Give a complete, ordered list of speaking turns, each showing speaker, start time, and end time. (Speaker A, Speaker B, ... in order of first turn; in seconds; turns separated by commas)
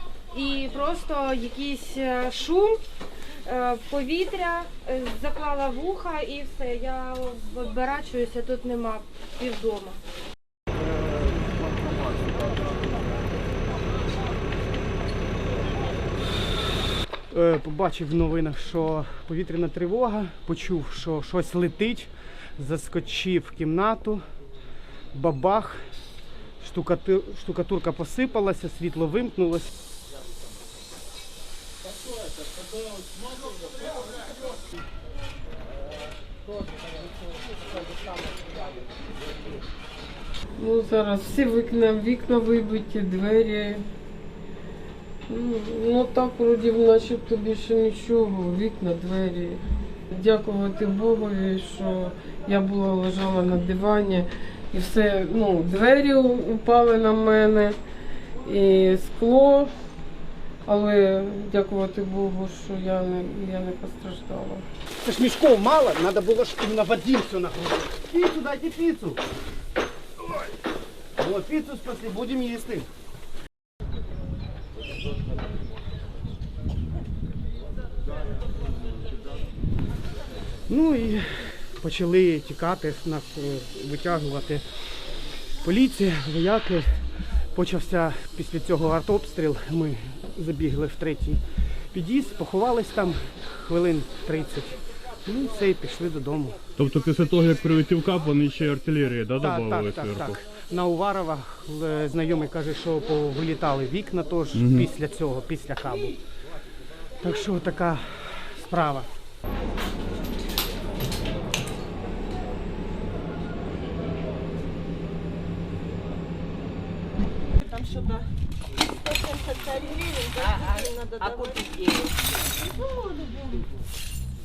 Speaker A: 0.3-2.8, Speaker A: 3.4-10.0, Speaker B: 17.3-24.2, Speaker B: 25.1-25.8, Speaker B: 26.6-29.7, Speaker C: 40.6-43.8, Speaker C: 45.3-57.8, Speaker C: 58.4-59.7, Speaker C: 60.6-64.6, Speaker B: 65.0-69.2, Speaker B: 71.2-72.9, Speaker B: 80.7-84.6, Speaker B: 85.6-86.9, Speaker B: 87.5-91.4, Speaker B: 91.9-96.5, Speaker D: 96.8-100.4, Speaker B: 99.4-106.1, Speaker D: 104.5-104.9, Speaker B: 107.2-109.1, Speaker E: 117.6-118.2, Speaker E: 119.0-122.1, Speaker E: 122.7-123.6